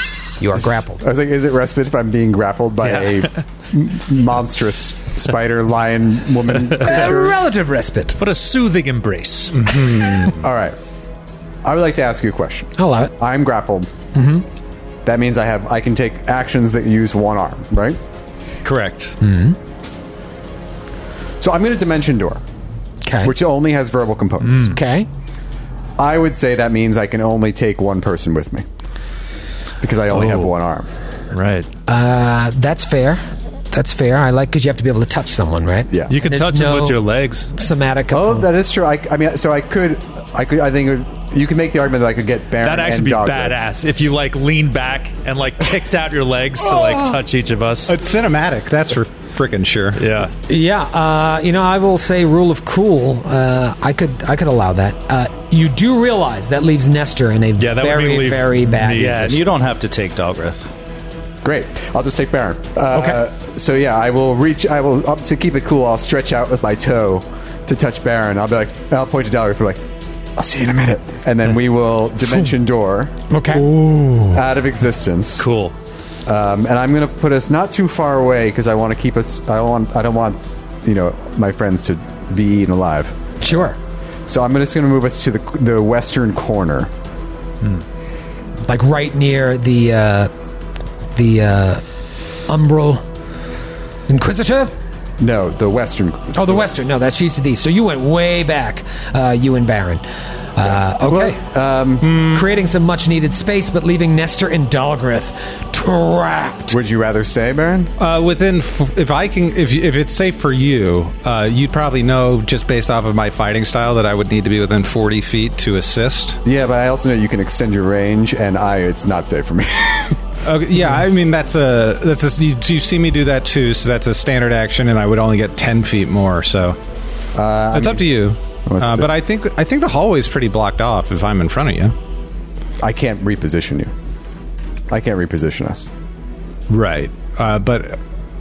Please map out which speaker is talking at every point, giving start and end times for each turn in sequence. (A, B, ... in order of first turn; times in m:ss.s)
0:00.4-0:01.0 A
0:01.0-0:07.4 B
0:02.9-0:03.2 C
0:06.8-0:08.2 A
0:08.2-0:10.1 C
0:09.7-0:10.8 B
0:11.6-0:13.9 B
0:12.8-0:13.1 A
0:14.1-0:14.4 A
0:15.0-0:18.0 B
0:18.6-0:19.1 D
0:19.2-0:19.6 A
0:21.4-0:22.4 B
0:23.0-0:23.3 A
0:23.2-0:24.8 B
0:24.7-0:25.1 A
0:26.0-0:28.6 B
0:29.8-0:30.9 B
0:31.3-0:31.7 C
0:31.9-0:37.0 A
0:36.1-0:37.5 C
0:37.5-0:38.5 A
0:38.1-0:43.6 B
0:42.6-0:47.9 C
0:46.7-0:47.2 E
0:47.9-0:50.0 E
0:50.0-0:50.3 C
0:50.5-0:59.4 A
0:57.6-0:59.4 C
0:59.1-1:00.7 D
1:01.4-1:09.8 B
1:02.9-1:03.2 A
1:10.4-1:13.1 B
1:13.3-1:13.8 A
1:13.8-1:14.3 E
1:14.3-1:15.5 B
1:15.4-1:15.7 C
1:16.2-1:23.2 B
1:23.4-1:23.8 A
1:24.2-1:26.9 B
1:28.6-1:30.3 A
1:31.1-1:31.8 A
1:32.5-1:33.0 A
1:34.1-1:34.7 A
1:35.2-1:36.7 B
1:36.3-1:40.0 A
1:40.6-1:41.4 A
1:40.9-1:42.2 B
1:42.0-1:42.4 E
1:42.0-1:46.8 A
1:46.7-1:47.9 B
1:48.0-1:56.4 E
1:56.4-2:00.2 B
2:00.4-2:06.8 E
2:07.3-2:09.1 B
2:07.7-2:11.9 E
2:12.8-2:13.9 B
2:14.9-2:15.9 B
2:16.7-2:18.0 E